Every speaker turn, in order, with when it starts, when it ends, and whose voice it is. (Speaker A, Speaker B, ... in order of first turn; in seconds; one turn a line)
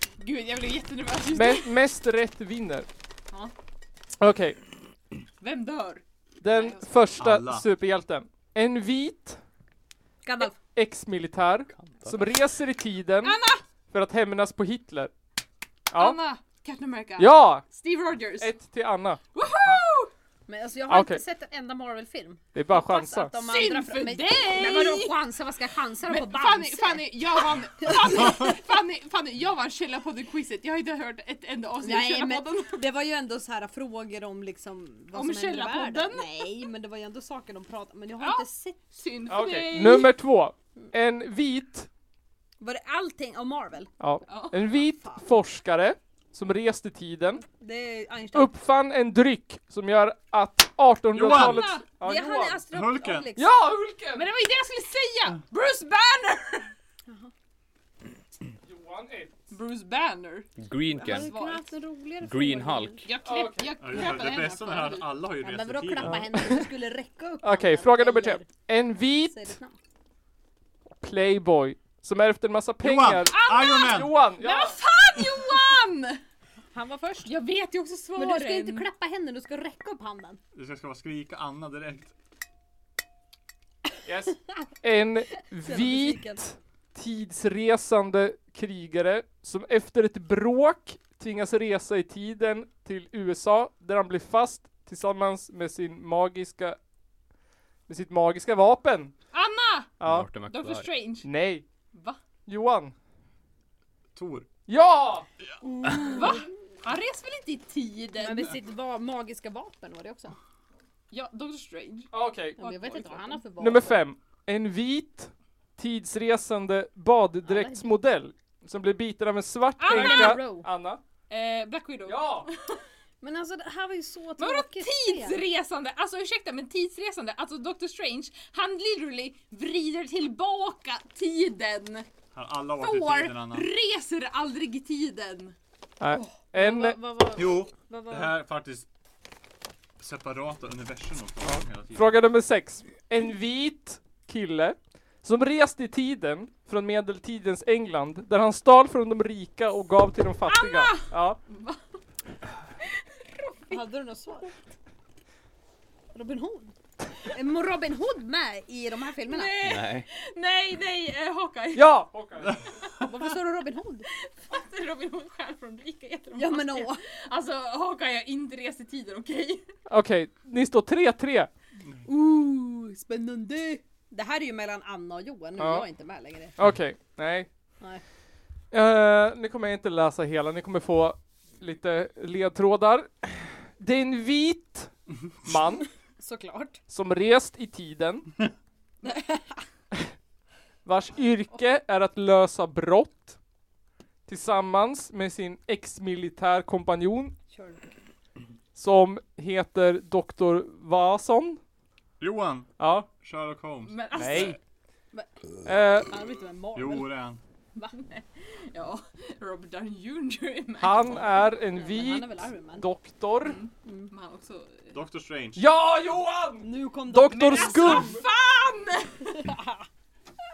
Speaker A: 0.2-1.7
Speaker B: 1.3-2.9
Speaker B: 4.2-4.6
Speaker A: 5.4-6.8
Speaker B: 6.4-9.4
Speaker C: 7.2-7.7
Speaker D: 10.2-10.6
Speaker B: 10.4-15.1
Speaker E: 11.7-12.2
Speaker A: 13.2-13.6
Speaker B: 15.9-16.2
Speaker A: 15.9-18.5
Speaker B: 17.2-17.6
Speaker B: 18.4-19.2
Speaker A: 19.3-20.1
Speaker D: 20.5-28.5
Speaker B: 20.9-21.2
Speaker B: 22.5-23.4
Speaker A: 23.4-25.3
Speaker A: 26.0-32.8
Speaker D: 31.8-39.0
Speaker A: 35.1-36.5
Speaker A: 38.2-40.1
Speaker B: 39.3-41.9
Speaker D: 42.6-43.9
Speaker B: 44.0-47.4
Speaker A: 44.3-44.6
Speaker D: 44.9-45.2
Speaker D: 47.4-48.5
Speaker B: 48.3-52.6
Speaker C: 51.1-51.8
Speaker A: 51.2-51.8
Speaker D: 52.0-53.5
Speaker C: 52.7-53.3
Speaker B: 53.4-54.3
Speaker A: 54.1-56.7
Speaker B: 58.6-59.3
Speaker A: 59.5-60.5
Speaker E: 60.6-61.4
Speaker D: 60.9-63.0
Speaker A: 61.1-61.7
Speaker E: 62.2-63.0
Speaker A: 63.0-65.1
Speaker B: 63.2-63.8
Speaker C: 63.8-66.3
Speaker D: 65.4-68.5
Speaker B: 66.0-66.6
Speaker B: 67.4-69.5
Speaker D: 69.3-69.7
Speaker B: 71.0-74.8
Speaker C: 72.8-74.2
Speaker A: 73.2-76.2
Speaker D: 76.7-77.4
Speaker A: 77.2-78.9
Speaker D: 78.1-80.4
Speaker C: 80.5-82.1
Speaker B: 84.0-96.8
Speaker D: 85.6-86.4
Speaker B: 97.9-99.1
Speaker A: 99.3-101.3
Speaker B: 100.0-100.3
Speaker E: 100.0-100.9
Speaker B: 101.2-101.6
Speaker A: 101.9-102.2
Speaker B: 102.5-102.9
Speaker C: 104.1-104.5
Speaker B: 104.7-105.3
Speaker D: 105.6-106.4
Speaker A: 106.0-108.6
Speaker D: 108.2-110.3
Speaker A: 111.1-112.1
Speaker B: 112.1-112.6
Speaker D: 112.6-114.0
Speaker A: 112.6-113.4
Speaker B: 113.6-121.0
Speaker D: 117.4-117.9
Speaker A: 119.8-120.6
Speaker D: 119.9-120.7
Speaker A: 121.3-122.8
Speaker B: 122.0-122.5
Speaker D: 123.2-125.4
Speaker A: 124.4-132.1
Speaker C: 132.3-133.7
Speaker A: 132.7-135.5
Speaker B: 136.0-137.0
Speaker D: 136.1-138.4
Speaker C: 137.3-138.9
Speaker C: 140.0-142.2
Speaker B: 141.4-151.4
Speaker A: 150.5-151.8
Speaker A: 152.8-153.8
Speaker D: 153.7-154.5
Speaker D: 156.1-159.5
Speaker A: 159.2-162.0
Speaker E: 159.6-160.1
Speaker B: 161.7-162.6
Speaker D: 163.0-164.1
Speaker A: 164.2-169.7
Speaker D: 166.3-167.0
Speaker B: 169.9-171.5
Speaker D: 172.0-176.5
Speaker B: 175.6-175.8
Speaker B: 176.6-177.5
Speaker B: 178.7-184.9
Speaker B: 185.4-185.9
Speaker D: 186.2-186.8
Speaker B: 186.9-188.4
Speaker D: 189.0-189.6
Speaker B: 190.8-193.4
Speaker B: 194.3-197.3
Speaker D: 197.5-197.8
Speaker B: 198.7-201.6
Speaker C: 202.2-204.4
Speaker B: 202.8-203.1
Speaker A: 203.8-204.6
Speaker B: 204.1-204.6
Speaker B: 205.6-206.1
Speaker D: 206.0-207.2
Speaker C: 206.7-207.4
Speaker A: 207.8-211.3
Speaker B: 210.8-213.6
Speaker D: 211.6-212.9
Speaker A: 213.4-214.9
Speaker D: 213.8-214.1
Speaker C: 214.9-215.7
Speaker B: 215.6-218.2
Speaker D: 216.6-218.2
Speaker A: 217.3-219.5
Speaker D: 219.3-219.8